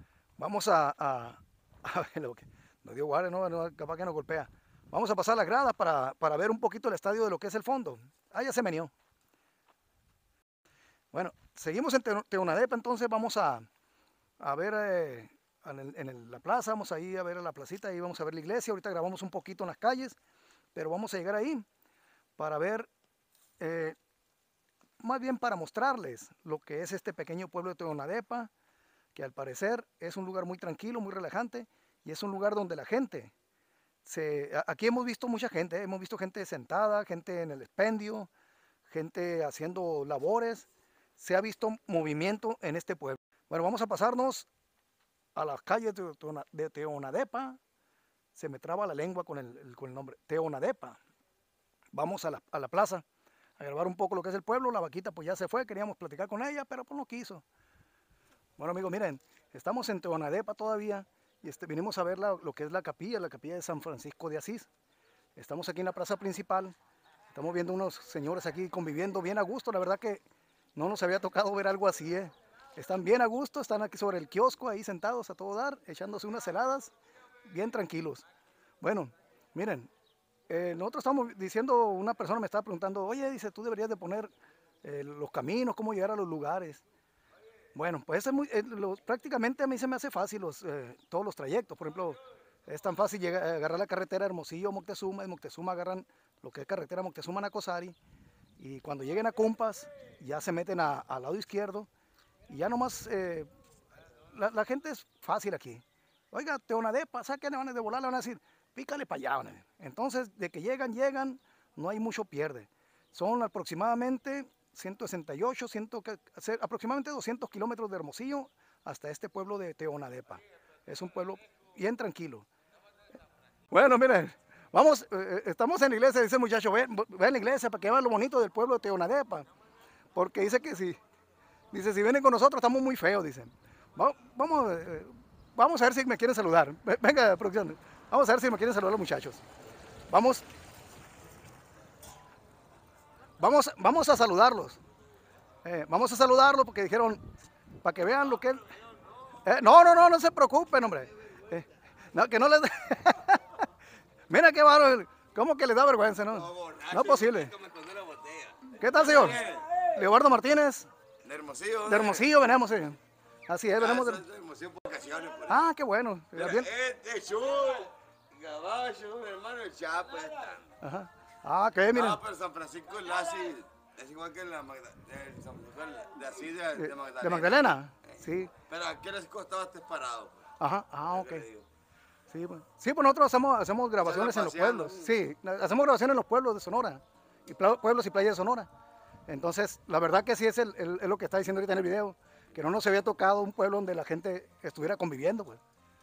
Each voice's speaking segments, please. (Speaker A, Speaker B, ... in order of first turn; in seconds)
Speaker A: 0.4-8.9, 11.1-13.7, 14.4-20.2, 20.8-21.6, 22.4-22.9, 23.6-24.0, 25.0-28.5, 29.1-33.3, 34.0-38.3, 38.9-44.5, 45.4-47.6, 48.4-51.0, 51.9-53.0, 53.6-57.4, 58.6-64.7, 65.4-66.8, 67.3-70.2, 70.8-76.9, 77.5-78.3, 78.8-79.9, 80.5-84.3, 84.8-86.8, 87.8-98.0, 98.6-101.9, 102.5-103.5, 104.3-122.5, 123.7-129.5, 130.1-131.0, 131.7-139.4, 140.1-140.5, 143.4-144.8, 145.6-147.2, 147.8-148.7, 149.4-153.7, 154.3-157.5, 158.8-160.9, 161.9-164.2, 165.5-166.7, 170.8-172.2, 176.8-178.5, 180.6-181.4, 182.3-188.7, 189.3-195.6
Speaker B: 156.3-159.9, 161.2-162.3, 163.7-165.7, 166.3-170.7, 171.9-180.5, 181.1-181.7, 184.0-185.2